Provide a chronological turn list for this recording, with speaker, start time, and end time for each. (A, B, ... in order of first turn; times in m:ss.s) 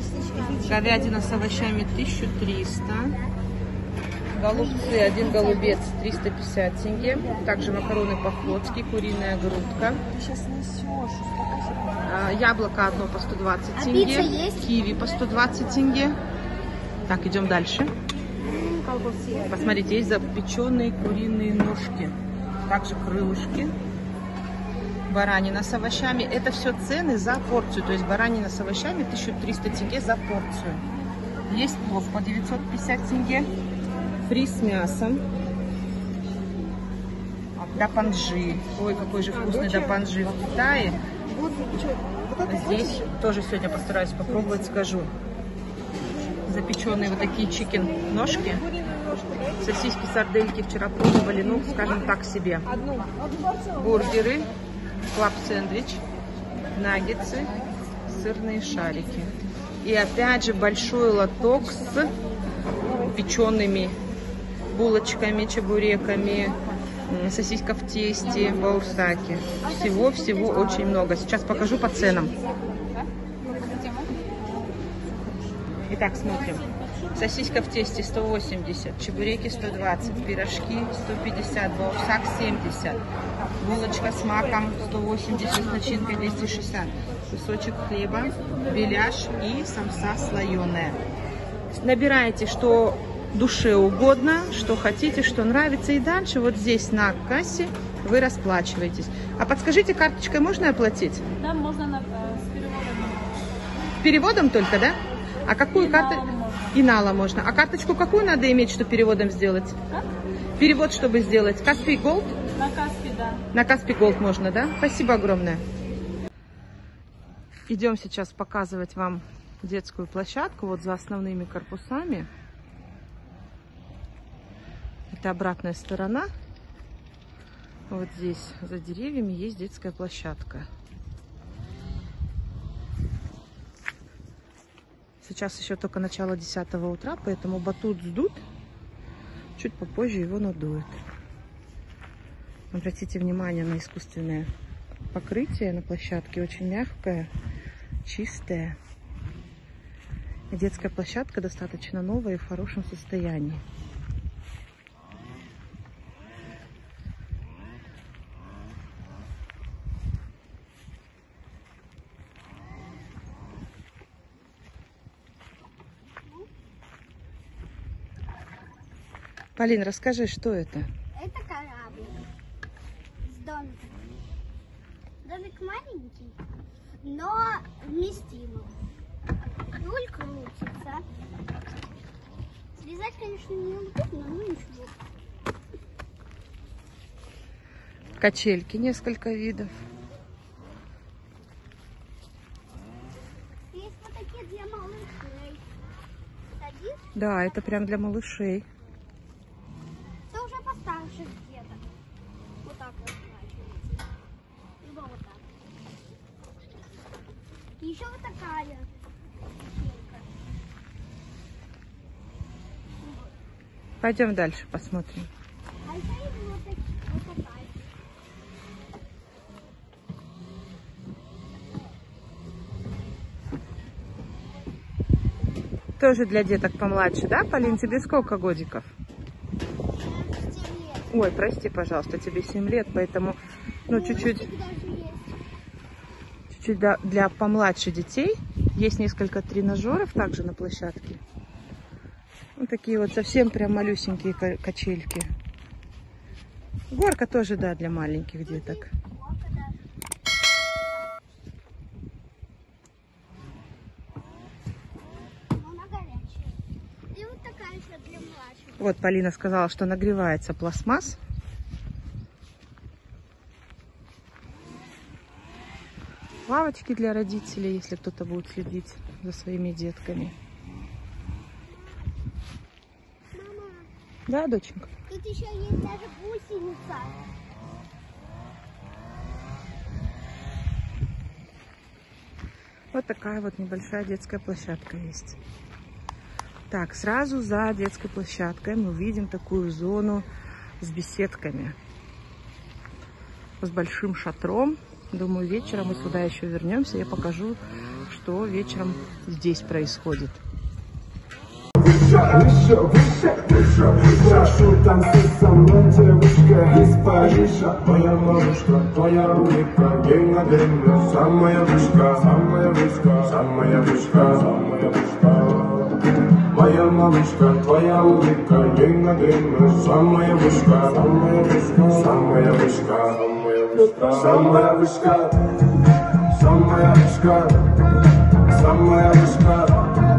0:00.2-0:00.7 A
0:00.6-0:03.1 B
0:04.3-0:10.0 B
0:04.5-0:05.3 A
0:12.0-0:16.2 B
0:13.8-0:14.6 A
0:17.1-0:17.9 B
0:18.4-0:19.5 A
0:19.5-0:22.1 B
0:22.7-0:23.7 B
0:25.1-0:30.8 B
0:31.5-0:33.5 B
0:34.3-0:35.2 B
0:37.6-0:41.0 B
0:42.4-0:45.1 B
0:46.4-0:48.7 B
0:49.6-0:52.7 B
0:53.8-0:54.5 B
0:55.1-0:56.0 B
0:56.7-0:57.5 B
0:58.0-1:02.1 B
1:03.0-1:04.0 B
1:04.7-1:12.3 B
1:15.9-1:23.0 B
1:23.6-1:31.0 B
1:31.7-1:41.2 B
1:41.4-1:43.6 C
1:44.0-1:49.8 B
1:45.7-1:46.8 C
1:50.6-1:52.3 B
1:52.5-1:53.4 C
1:53.5-1:55.6 B
1:57.7-2:02.3 B
2:05.1-2:06.3 B
2:07.9-2:10.7 B
2:15.2-2:18.4 B
2:19.6-2:21.0 B
2:22.7-2:24.5 B
2:25.1-2:27.3 B
2:28.0-2:28.8 B
2:30.5-2:33.6 B
2:49.6-2:50.9 B
2:51.1-2:52.2 A
2:53.2-2:54.0 A
2:55.2-2:56.4 A
2:57.0-2:58.8 A
2:59.7-3:01.0 A
3:02.8-3:04.9 A
3:08.2-3:09.7 B
3:13.7-3:15.9 A
3:16.6-3:17.7 A
3:17.1-3:18.6 B
3:20.3-3:21.9 A
3:22.6-3:24.1 A
3:24.8-3:25.5 A
3:27.8-3:28.9 A
3:29.4-3:30.3 A
3:33.0-3:33.4 A
3:34.0-3:35.3 B
3:35.8-3:37.8 A
3:46.0-3:48.9 B
3:49.9-3:51.1 A
3:51.1-3:54.4 B
3:53.9-3:55.4 A
3:56.5-4:01.2 B
4:02.6-4:05.3 B
4:06.9-4:08.8 B
4:08.4-4:09.8 A
4:15.5-4:16.5 A
4:17.1-4:18.9 A
4:18.8-4:21.2 B
4:26.5-4:30.3 B
4:33.3-4:33.9 A
4:34.3-4:34.9 B
4:35.1-4:37.2 A
4:42.9-4:45.4 B
4:46.7-4:50.2 B
4:50.8-4:51.8 B
4:53.6-5:00.4 B
5:01.8-5:16.0 D
5:16.5-5:25.6 D
5:26.3-5:27.7 D
5:28.5-5:29.9 D